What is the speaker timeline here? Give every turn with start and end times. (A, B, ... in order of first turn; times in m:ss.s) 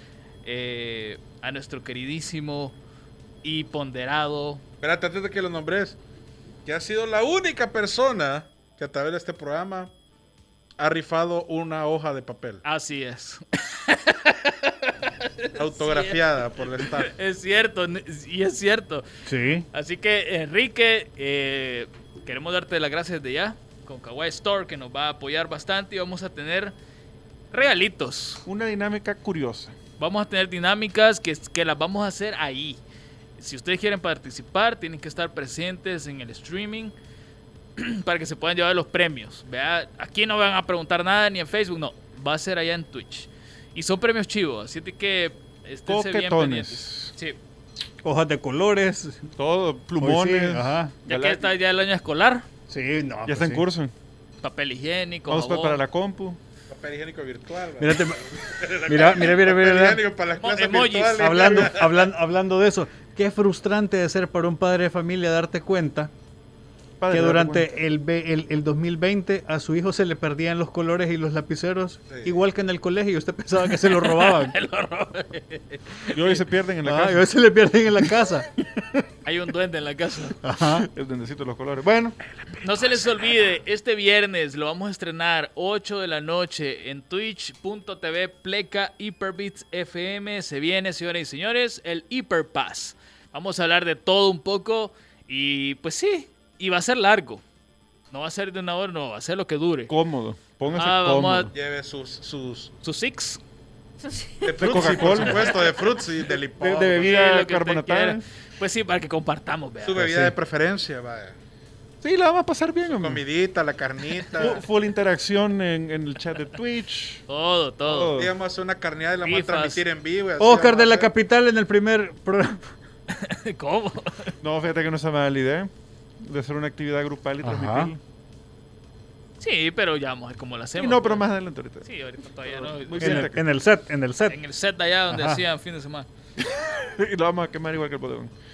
0:00.4-0:02.8 A
0:03.4-0:04.6 A
0:04.8-0:06.0 B
0:06.7-0:09.9 B
0:10.8-0:12.6 B
0:12.6-0:19.1 A
0:15.6-0:17.1 B
0:19.3-0:19.7 C
0:19.7-0:26.7 A
0:27.5-0:28.4 A
0:28.5-0:29.8 D
0:30.0-0:32.8 A
0:33.4-0:36.9 A
0:37.8-0:47.4 A
0:45.9-0:47.1 D
0:48.0-0:49.3 C
0:49.4-0:51.4 D
0:50.0-0:51.0 C
0:51.1-0:52.5 A
0:52.7-0:53.6 C
0:53.3-0:53.9 D
0:54.4-0:55.8 A
0:55.3-0:56.4 D
0:56.7-1:02.1 B
0:57.8-1:00.0 C
1:00.4-1:01.6 A
1:01.2-1:06.1 C
1:07.0-1:07.7 D
1:07.1-1:14.6 C
1:12.1-1:12.4 B
1:13.6-1:16.4 A
1:16.1-1:17.3 D
1:16.8-1:18.5 C
1:18.7-1:19.0 D
1:19.2-1:20.4 A
1:20.4-1:20.9 C
1:20.8-1:22.2 D
1:22.3-1:23.3 B
1:22.6-1:37.4 A
1:38.1-1:39.9 A
1:39.9-1:41.5 D
1:40.7-1:41.5 A
1:41.5-1:42.7 B
1:42.8-1:43.4 A
1:44.4-1:47.2 B
1:44.5-1:45.7 D
1:46.6-1:48.2 D
1:47.0-1:50.1 A
1:49.8-1:51.4 B
1:50.0-1:50.4 D
1:52.0-1:53.2 D
1:52.9-1:54.6 B
1:54.4-1:57.2 D
1:57.3-1:58.1 A
1:57.8-1:58.3 D
1:58.1-2:01.1 B
1:59.2-1:59.8 A
2:00.4-2:02.7 C
2:03.1-2:04.3 A
2:04.4-2:05.7 D
2:06.2-2:08.0 D
2:07.4-2:07.9 C
2:09.4-2:11.2 A
2:10.8-2:11.9 D
2:11.8-2:13.3 A
2:12.4-2:13.5 D
2:13.0-2:14.4 C
2:14.3-2:16.1 A
2:15.1-2:15.4 C
2:16.4-2:18.3 D